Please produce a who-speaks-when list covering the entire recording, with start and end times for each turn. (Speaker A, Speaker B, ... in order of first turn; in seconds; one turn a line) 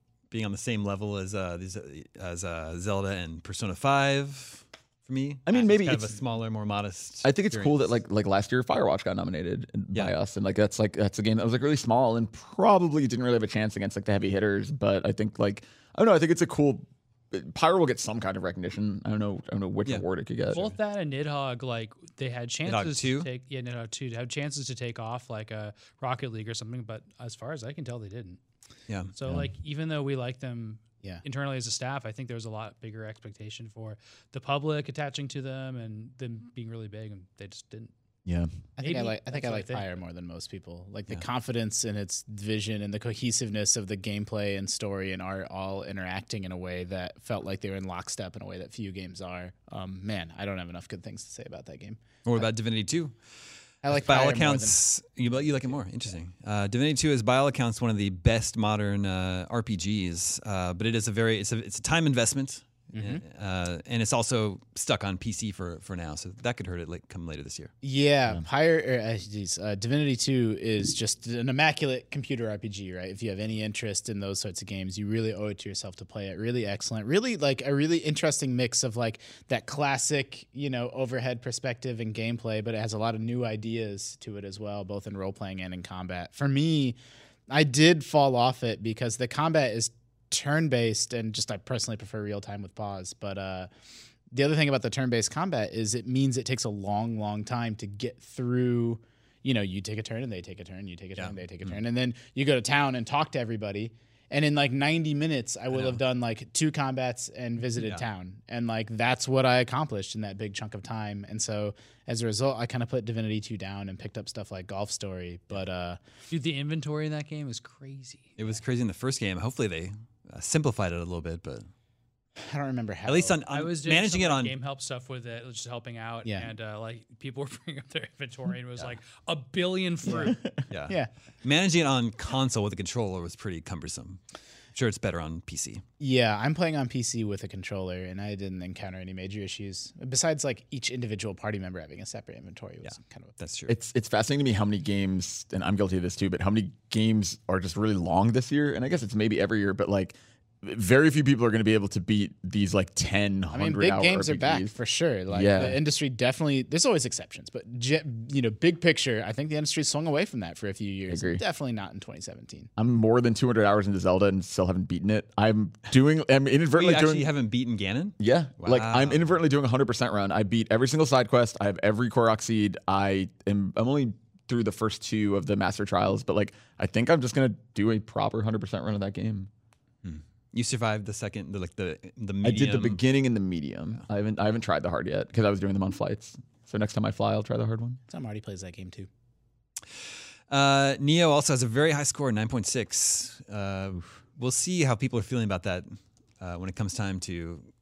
Speaker A: 0.3-7.9
Speaker B: 5.5-6.2
Speaker B: 7.2-20.7
Speaker C: 20.5-28.4
Speaker A: 22.7-23.3
Speaker C: 29.1-37.9
Speaker D: 38.8-52.5
Speaker C: 38.8-39.9
Speaker A: 52.2-53.1
Speaker D: 53.8-54.8
Speaker A: 53.9-67.7
Speaker D: 55.3-55.8
Speaker D: 62.9-63.2
Speaker D: 67.8-87.0
Speaker D: 87.5-93.7
Speaker D: 94.3-116.0
Speaker A: 101.2-101.8
Speaker A: 105.7-106.0
Speaker C: 116.3-118.4
Speaker A: 118.4-121.7
Speaker D: 122.4-123.4
Speaker A: 123.1-124.5
Speaker C: 123.5-130.4
Speaker D: 130.1-130.4
Speaker B: 130.2-130.6
Speaker A: 130.7-134.2
Speaker A: 134.8-135.8
Speaker D: 136.0-143.3
Speaker A: 142.8-143.7
Speaker B: 143.7-154.7
Speaker D: 153.5-162.7
Speaker B: 155.3-155.8
Speaker B: 161.1-161.4
Speaker B: 162.8-167.3
Speaker A: 166.7-169.4
Speaker B: 168.2-179.5
Speaker A: 180.0-183.0
Speaker B: 182.4-188.0
Speaker D: 188.1-189.1
Speaker A: 190.5-197.7